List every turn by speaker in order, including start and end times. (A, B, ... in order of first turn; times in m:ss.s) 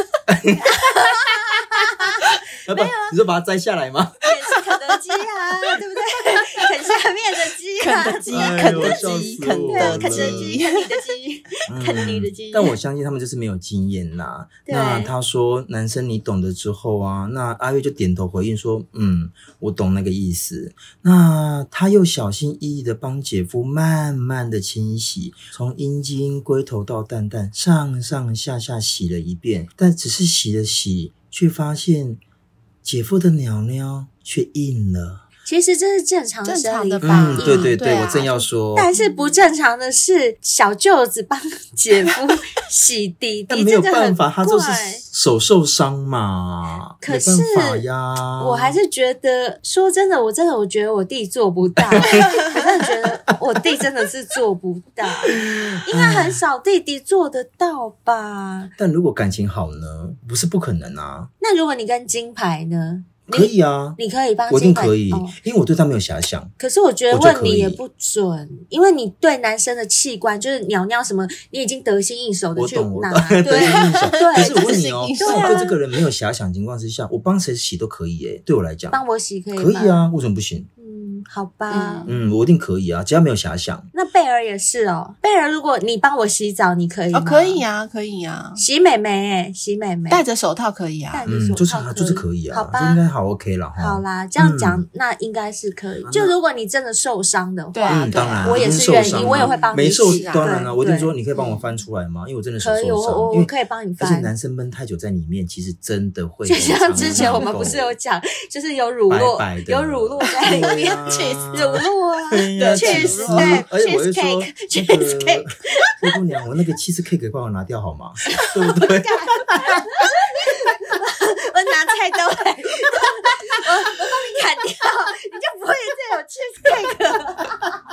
0:00.3-0:01.1 A
0:00.8-0:03.1 B
0:02.6-0:04.2 A
0:04.2-0:12.7 B
0:07.8-0:10.9 C
0:08.3-0:10.6 A
0:11.7-0:32.2 A
0:14.7-0:15.1 B
0:32.8-0:35.2 A
0:35.4-0:45.0 B
0:36.5-0:38.4 C
0:37.0-0:38.9 A
0:43.5-0:48.8 A
0:47.0-0:47.9 B
0:48.4-0:58.7 B
0:51.8-0:52.4 A
0:55.3-0:56.4 A
0:58.8-1:01.3 A
1:01.4-1:05.4 B
1:03.3-1:06.5 A
1:06.6-1:15.7 B
1:07.1-1:07.8 A
1:12.6-1:19.0 A
1:13.5-1:15.8 C
1:18.9-1:20.1 B
1:19.6-1:20.7 A
1:20.8-1:22.1 B
1:21.7-1:22.2 C
1:22.1-1:23.9 A
1:23.9-1:27.6 B
1:27.1-1:28.6 C
1:28.6-1:30.2 B
1:30.1-1:31.3 C
1:31.1-1:33.0 B
1:31.3-1:34.8 A
1:33.8-1:41.2 B
1:36.0-1:36.4 A
1:37.7-1:40.6 C
1:37.9-1:48.0 A
1:42.6-1:44.3 B
1:46.5-1:56.0 B
1:47.0-1:47.5 C
1:49.1-2:00.1 A
1:50.6-1:51.8 C
1:52.6-1:53.6 C
1:58.4-2:07.5 B